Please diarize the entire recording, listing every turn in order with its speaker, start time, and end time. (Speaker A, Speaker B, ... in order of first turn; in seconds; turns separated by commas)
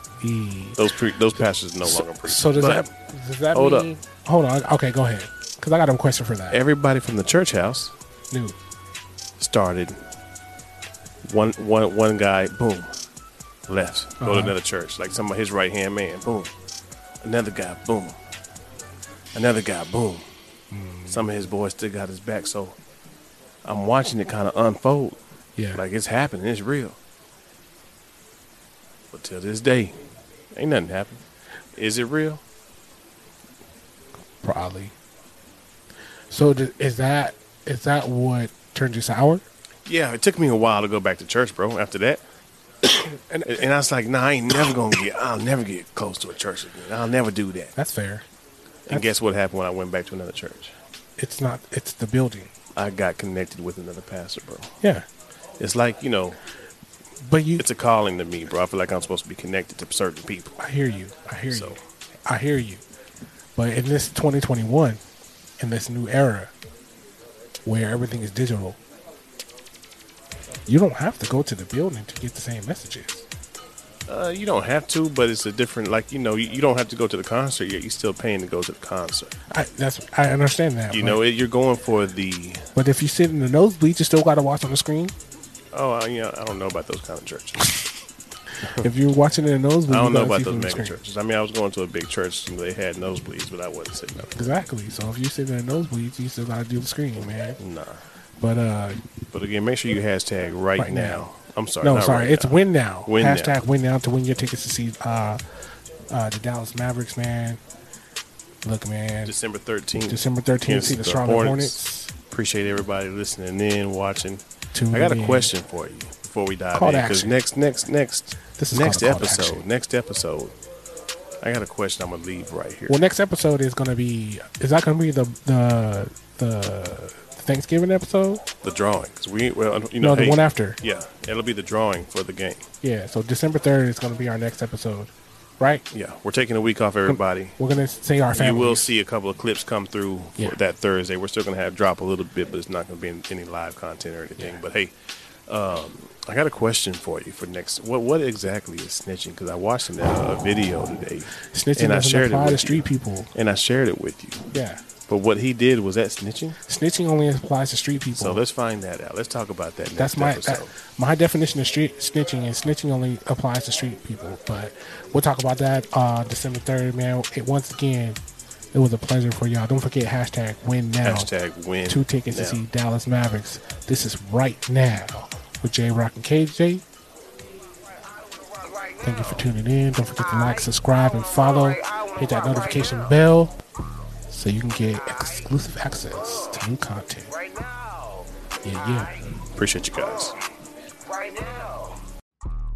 Speaker A: 0.2-0.9, Speaker B: 0.8-2.9, Speaker A: 1.8-6.6, Speaker B: 3.5-3.9, Speaker B: 6.5-7.9, Speaker A: 8.3-8.6, Speaker B: 9.4-10.0, Speaker B: 11.2-13.0, Speaker B: 13.7-16.5, Speaker A: 14.2-14.6, Speaker B: 17.2-18.2, Speaker B: 19.3-20.2, Speaker A: 20.7-21.3, Speaker B: 21.1-22.8, Speaker B: 23.6-25.2, Speaker A: 25.6-25.8, Speaker B: 25.7-27.0, Speaker B: 29.1-30.0, Speaker B: 30.5-31.2, Speaker B: 31.7-32.4, Speaker A: 34.4-34.9, Speaker A: 36.3-39.4, Speaker B: 39.9-42.2, Speaker A: 42.8-43.7, Speaker B: 43.5-47.7, Speaker A: 47.8-48.2, Speaker B: 48.9-50.7, Speaker A: 51.2-52.5, Speaker B: 52.7-54.7, Speaker B: 55.6-56.4, Speaker A: 57.2-57.6, Speaker B: 57.6-60.5, Speaker A: 60.6-62.8, Speaker B: 61.5-61.8, Speaker A: 63.6-65.0, Speaker A: 65.6-66.5, Speaker A: 67.6-68.8, Speaker A: 70.7-73.2, Speaker B: 74.1-79.3, Speaker A: 79.5-81.2, Speaker B: 80.9-82.7, Speaker A: 82.8-85.1, Speaker B: 85.7-87.7, Speaker A: 88.6-91.0, Speaker B: 89.9-94.5, Speaker A: 94.2-97.6, Speaker B: 97.6-98.0, Speaker A: 98.4-99.0, Speaker B: 99.3-103.5, Speaker A: 100.8-101.2, Speaker A: 101.8-105.4, Speaker A: 106.1-107.6, Speaker A: 108.6-109.3, Speaker B: 109.2-120.5, Speaker A: 110.1-112.1, Speaker A: 114.7-115.5, Speaker A: 116.7-117.3, Speaker A: 118.6-119.6, Speaker B: 121.4-123.0, Speaker A: 122.9-128.4, Speaker B: 128.6-132.7, Speaker A: 130.0-130.8, Speaker A: 132.8-135.8, Speaker B: 135.9-137.6, Speaker A: 137.1-138.9, Speaker B: 138.3-144.9, Speaker B: 145.5-154.5, Speaker A: 151.5-153.3, Speaker A: 154.5-154.8, Speaker B: 155.1-156.6, Speaker A: 156.6-158.4, Speaker B: 158.1-160.7, Speaker A: 160.0-168.2, Speaker A: 168.7-171.3, Speaker B: 171.0-172.6, Speaker A: 171.9-176.8, Speaker A: 179.0-183.6, Speaker A: 184.3-187.4, Speaker A: 188.6-189.2, Speaker B: 189.5-190.4